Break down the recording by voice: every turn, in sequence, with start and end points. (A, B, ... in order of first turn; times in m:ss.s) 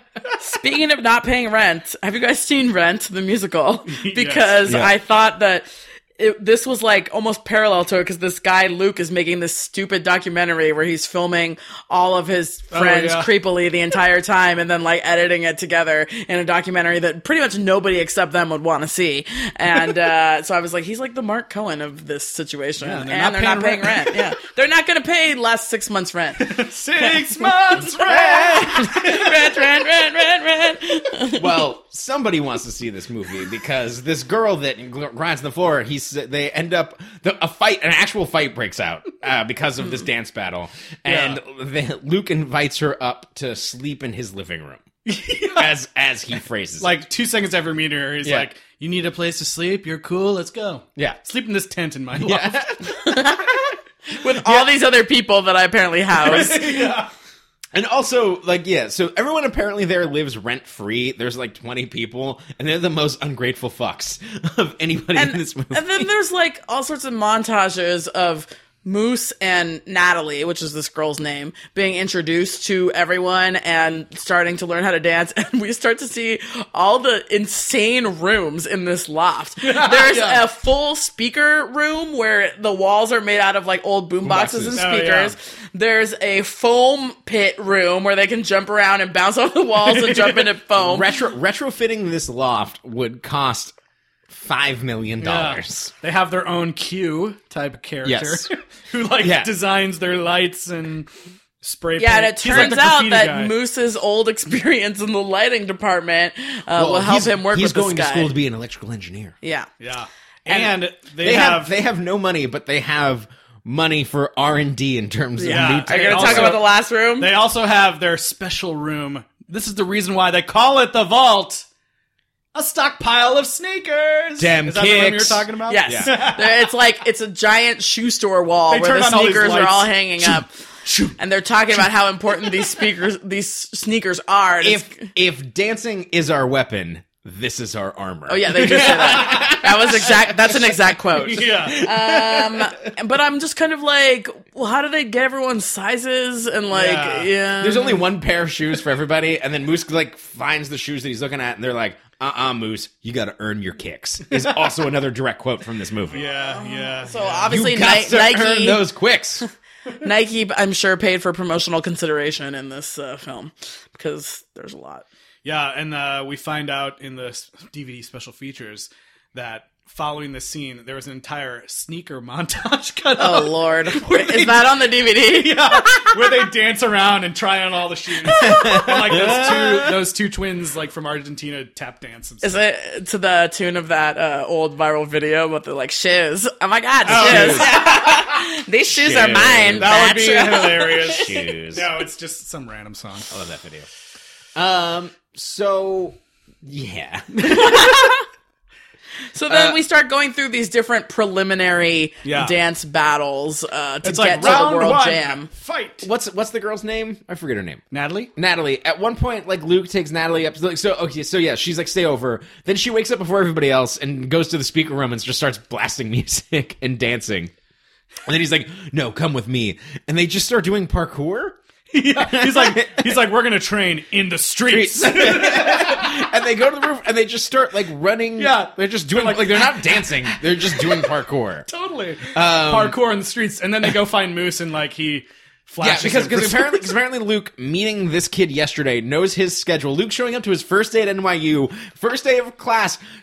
0:00.4-0:26.7 A
0:03.9-0:04.7 B
0:04.7-0:04.9 C
0:12.7-0:13.4 B
0:22.8-0:24.3 B
0:26.4-0:29.6 B
0:27.8-0:31.6 A
0:28.2-0:28.7 C
0:31.4-0:44.9 C
0:41.1-0:41.4 B
0:45.1-0:45.7 B
0:45.4-0:47.0 C
0:46.8-0:52.7 B
0:48.2-0:48.5 C
0:52.2-0:53.2 C
0:53.0-0:53.6 A
0:54.2-0:56.9 A
0:56.2-0:57.1 B
0:57.8-1:06.1 C
1:05.2-1:31.1 A
1:19.6-1:20.4 B
1:24.2-1:24.9 C
1:24.7-1:25.4 B
1:29.8-1:30.5 B
1:30.8-1:33.7 C
1:34.3-1:35.9 C
1:35.2-1:41.1 B
1:38.0-1:38.5 C
1:39.2-1:39.5 C
1:41.6-1:43.5 B
1:42.0-1:48.3 A
1:46.7-1:49.4 C
1:49.4-1:49.7 A
1:49.8-1:51.8 B
1:50.5-1:56.6 C
1:55.4-1:57.3 A
1:55.4-2:01.6 B
2:02.6-2:06.8 B
2:04.4-2:06.1 C
2:05.7-2:10.5 A
2:08.7-2:11.2 B
2:11.2-2:15.1 A
2:12.4-2:12.8 B
2:14.6-2:20.3 C
2:18.3-2:28.0 A
2:18.6-2:19.7 B
2:21.1-2:21.8 B
2:21.5-2:22.7 C
2:26.7-2:27.3 B
2:27.6-2:36.2 C
2:36.1-2:37.6 B
2:36.2-2:38.9 A
2:37.5-2:39.4 C
2:40.0-2:45.0 A
2:45.4-2:54.7 B
2:53.2-2:56.2 A
2:55.3-3:02.6 B
2:58.3-3:00.0 C
3:02.4-3:11.4 A
3:07.1-3:07.9 B
3:07.1-3:08.3 C
3:08.9-3:10.0 C
3:09.8-3:13.3 B
3:11.0-3:11.9 C
3:13.3-3:13.9 C
3:14.6-3:18.2 C
3:17.4-3:18.2 A
3:19.3-3:25.5 A
3:19.5-3:19.8 C
3:22.2-3:22.6 B
3:24.0-3:26.1 B
3:24.4-3:24.7 C
3:26.0-3:27.8 C
3:27.9-3:28.3 B
3:28.4-3:37.5 C
3:38.3-3:41.6 C
3:41.9-3:46.2 B
3:42.2-3:43.1 C
3:44.7-3:51.7 C
3:48.4-3:51.1 B
3:51.7-3:56.9 B
3:52.3-3:53.0 C
3:55.8-4:03.0 C